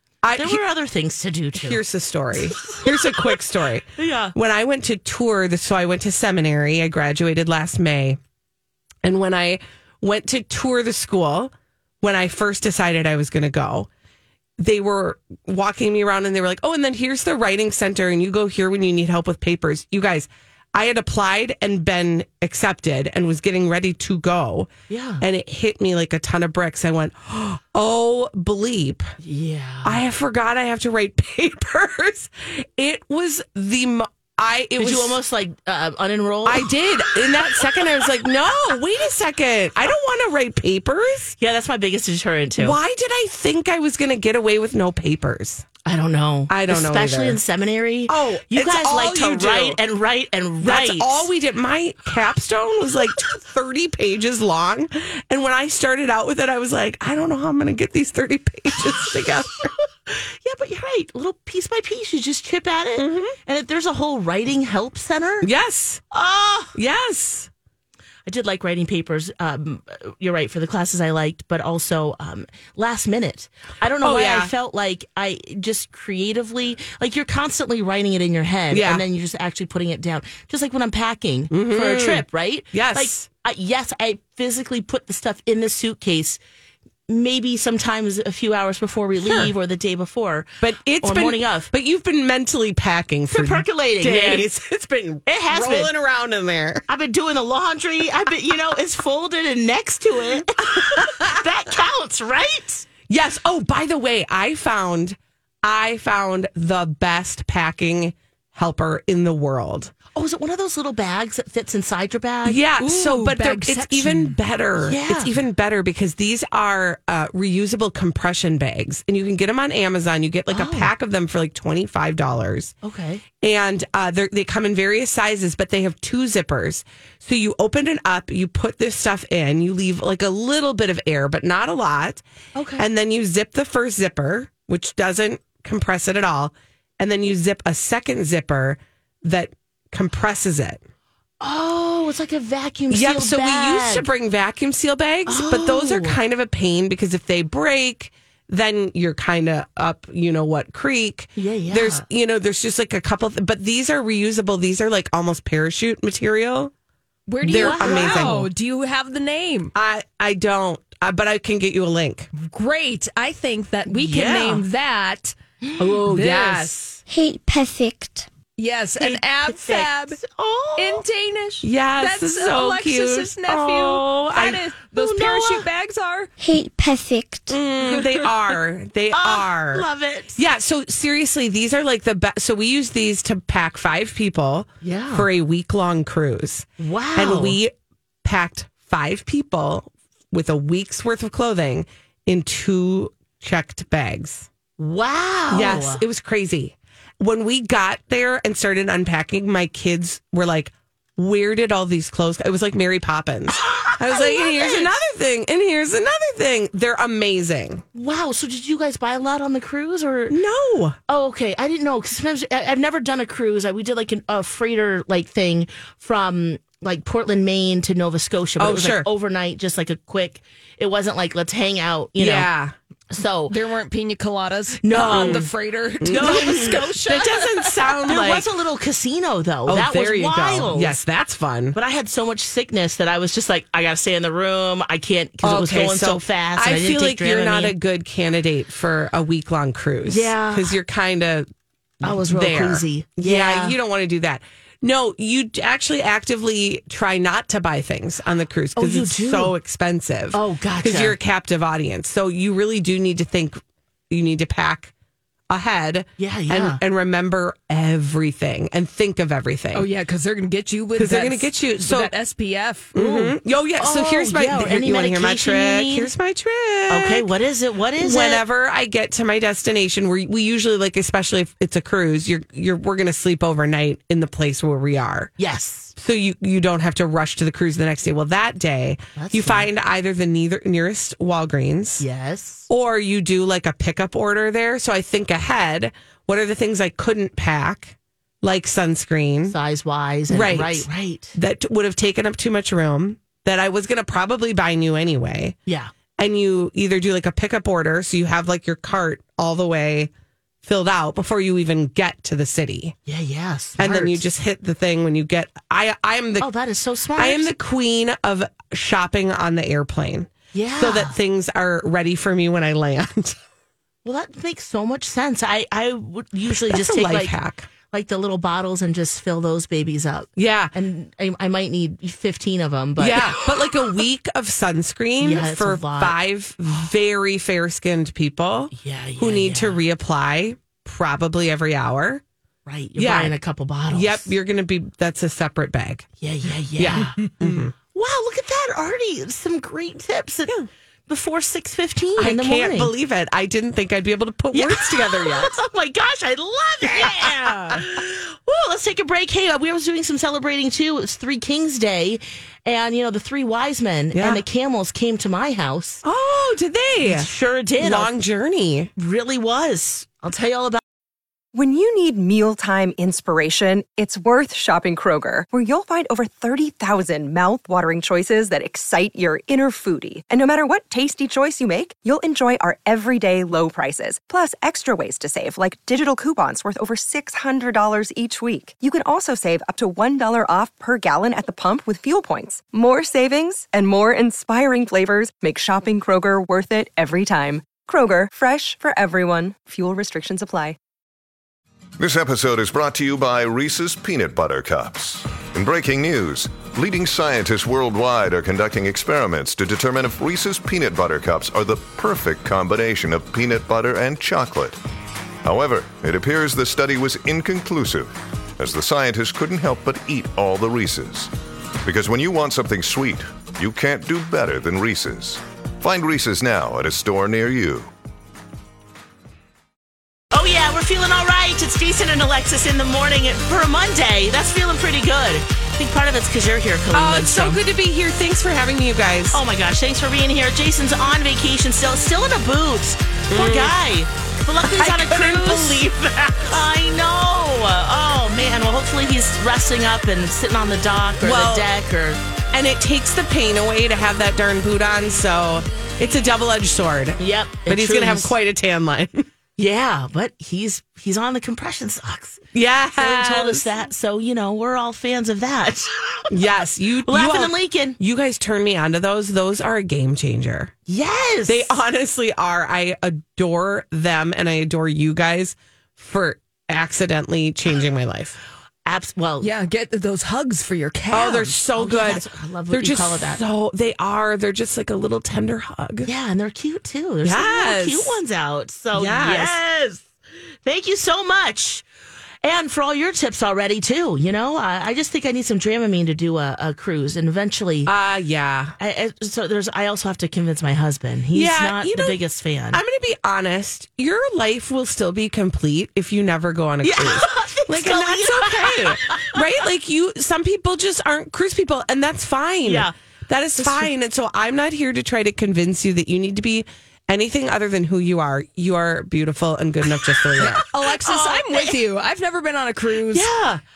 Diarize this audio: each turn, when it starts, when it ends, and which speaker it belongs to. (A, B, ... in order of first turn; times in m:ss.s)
0:00.2-0:00.6 A
0:00.3-0:01.8 B
0:01.5-0:08.2 A
0:02.6-0:03.3 B
0:04.0-0:04.3 B
0:09.0-0:13.9 A
0:14.6-0:29.1 A
0:24.9-0:25.2 B
0:29.2-0:30.0 B
0:29.8-0:35.2 A
0:34.8-0:38.0 B
0:36.4-0:41.3 A
0:41.4-0:42.8 B
0:42.6-0:45.6 A
0:45.8-0:51.3 B
0:46.5-0:47.4 A
0:48.1-0:49.8 A
0:50.6-0:59.7 A
1:00.1-1:05.5 B
1:03.0-1:03.3 A
1:05.4-1:06.0 A
1:06.1-1:06.7 B
1:06.7-1:07.5 A
1:08.2-1:26.4 B
1:14.0-1:14.5 A
1:18.7-1:19.0 A
1:21.5-1:23.3 A
1:27.1-1:31.7 B
1:29.2-1:29.5 A
1:30.6-1:36.8 A
1:33.3-1:34.5 B
1:35.2-1:35.9 B
1:36.9-1:42.8 B
1:41.0-1:41.3 A
1:43.1-1:49.9 A
1:50.1-1:52.6 B
1:52.4-2:02.7 A
1:52.8-1:54.4 C
1:54.8-1:55.4 B
2:00.5-2:00.9 B
2:02.8-2:03.2 B
2:03.4-2:12.2 A
2:12.5-2:12.8 B
2:12.8-2:20.8 A
2:21.4-2:24.1 B
2:22.9-2:36.7 A
2:25.3-2:26.2 B
2:31.4-2:32.0 B
2:37.3-2:39.7 C
2:37.4-2:38.5 A
2:37.4-2:38.4 B
2:39.7-2:42.3 A
2:42.3-2:45.3 C
2:43.9-2:44.6 A
2:45.6-2:46.0 B
2:45.8-2:47.0 A
2:46.0-2:46.8 C
2:47.1-2:48.3 D
2:48.6-2:50.2 C
2:49.0-2:51.0 B
2:50.8-2:56.3 C
2:51.6-2:54.6 A
2:54.9-2:55.7 B
2:56.4-2:57.6 D
2:57.5-3:14.5 A
2:59.1-3:00.4 B
3:04.8-3:05.3 B
3:06.8-3:07.6 B
3:14.8-3:16.0 B
3:15.5-3:27.8 A
3:23.6-3:25.0 B
3:27.9-3:30.4 B
3:30.3-3:31.0 A
3:31.1-3:42.5 B
3:38.6-3:39.1 A
3:42.2-3:42.7 A
3:43.1-3:43.6 B
3:43.5-3:47.9 C
3:44.8-3:45.5 B
3:44.9-3:45.5 A
3:46.0-3:48.4 A
3:46.0-3:47.4 B
3:48.0-3:51.0 B
3:49.6-3:51.8 A
3:51.7-3:57.8 B
3:55.4-4:01.5 A
4:00.0-4:00.8 B
4:02.0-4:14.9 A
4:02.0-4:03.8 B
4:08.8-4:09.6 B
4:10.3-4:11.2 B
4:15.5-4:19.9 A
4:16.2-4:16.8 B
4:19.7-4:22.9 C
4:21.0-4:22.1 A
4:22.9-4:27.3 A
4:23.0-4:26.1 B
4:26.9-4:28.4 B
4:28.0-4:35.3 A
4:35.4-4:35.9 B
4:36.0-4:42.0 A
4:39.1-4:39.7 B
4:42.0-4:42.7 B
4:42.7-4:49.6 A
4:49.5-4:51.3 B
4:50.3-4:55.6 A
4:55.6-4:55.9 B
4:56.2-5:00.1 A
5:00.6-5:02.9 A
5:03.0-5:04.2 B
5:03.8-5:06.5 A
5:06.4-5:07.5 B
5:07.2-5:13.4 A
5:10.5-5:11.2 B
5:14.0-5:17.3 B
5:16.7-5:17.7 A
5:17.9-5:23.4 B
5:20.4-5:20.7 A
5:23.0-5:32.2 A
5:25.2-5:26.2 B
5:28.7-5:29.8 B
5:32.6-5:34.3 B
5:33.0-5:33.4 A
5:33.9-5:36.1 A
5:36.2-5:37.2 B
5:36.8-5:37.7 A
5:37.9-5:40.6 B
5:41.1-5:42.9 B
5:42.2-5:45.5 A
5:44.5-5:56.0 B
5:46.8-5:47.8 A
5:54.1-5:54.4 A
5:56.0-5:58.9 A
5:57.0-5:58.1 B
5:59.0-6:00.8 B
6:01.5-6:30.8 E
6:32.0-6:44.8 F
6:45.4-6:51.3 F
6:51.8-6:57.9 F
7:00.3-7:07.6 B
7:06.9-7:09.4 A
7:09.3-7:22.2 B
7:13.3-7:13.7 A
7:14.7-7:15.9 A
7:21.2-7:21.7 A
7:22.5-7:29.3 A
7:27.2-7:28.4 B
7:29.6-7:32.4 B
7:32.5-7:33.6 A
7:33.0-7:36.3 B
7:36.3-7:40.7 A
7:37.0-7:38.0 B
7:40.9-7:41.7 B
7:41.5-7:48.4 A
7:48.8-7:49.5 B
7:49.4-7:51.5 C
7:51.1-7:56.1 A
7:51.8-7:53.4 B
7:56.0-8:00.0 B
7:57.2-7:58.2 A
7:58.9-7:59.6 A
8:00.6-8:01.8 B
8:02.4-8:07.9 B
8:07.8-8:08.7 A
8:08.8-8:12.8 B
8:11.3-8:12.2 A
8:12.7-8:30.6 A
8:16.8-8:19.4 B
8:22.6-8:22.9 B
8:23.6-8:23.9 B
8:30.3-8:31.8 B
8:30.5-8:33.3 C
8:33.1-8:33.6 B